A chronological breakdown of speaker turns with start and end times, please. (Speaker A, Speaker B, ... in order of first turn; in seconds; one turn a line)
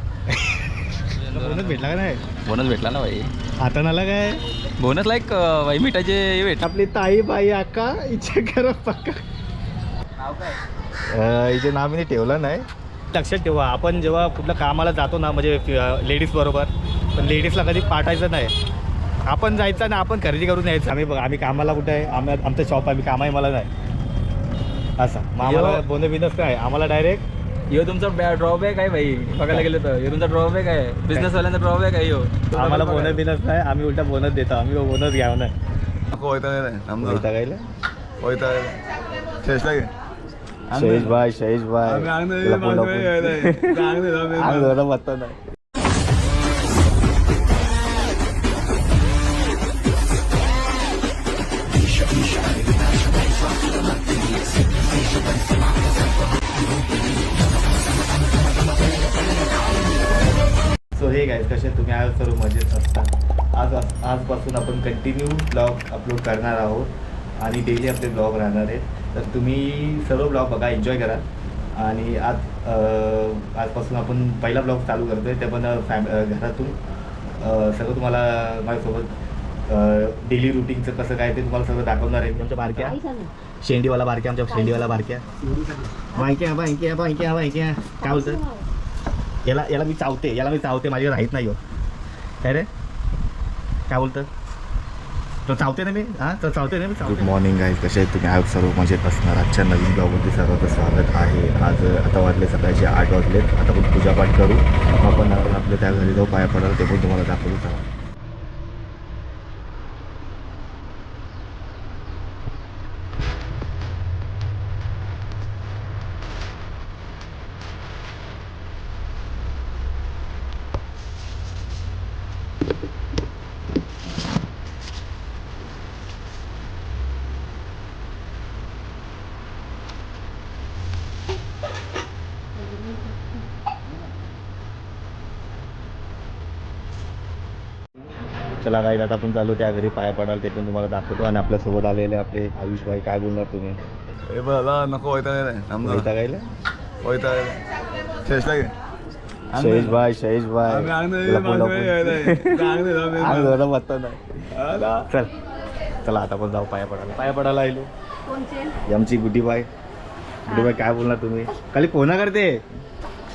Speaker A: 0.3-0.8
Speaker B: 1.1-3.3
Speaker A: 1.3-2.2
Speaker A: 3.6-4.4
Speaker B: 4.8-6.7
Speaker A: 6.6-9.2
Speaker B: 10.2-10.6
Speaker A: 11.1-18.5
Speaker A: 19.3-23.7
Speaker A: 25.0-27.2
Speaker B: 25.4-25.8
Speaker B: 27.7-33.2
Speaker A: 32.5-35.5
Speaker C: 36.1-37.3
Speaker A: 37.0-37.6
Speaker C: 38.2-38.8
Speaker C: 39.4-39.9
Speaker A: 40.7-45.4
Speaker B: 40.7-41.1
Speaker C: 41.9-44.7
Speaker A: 60.9-71.2
Speaker A: 71.8-76.8
Speaker A: 77.4-79.1
Speaker A: 79.7-83.0
Speaker A: 83.6-85.2
Speaker A: 86.1-88.4
Speaker A: 89.5-91.6
Speaker A: 92.4-92.7
Speaker A: 93.9-94.3
Speaker A: 95.5-107.8
Speaker A: 138.6-143.8
Speaker C: 144.3-146.1
Speaker A: 145.8-146.4
Speaker C: 147.0-147.6
Speaker C: 148.3-148.7
Speaker A: 149.5-154.2
Speaker B: 149.6-150.0
Speaker C: 150.7-153.0
Speaker B: 152.8-153.4
Speaker B: 154.6-155.1
Speaker A: 156.0-157.9
Speaker A: 158.9-159.7
Speaker A: 160.5-162.6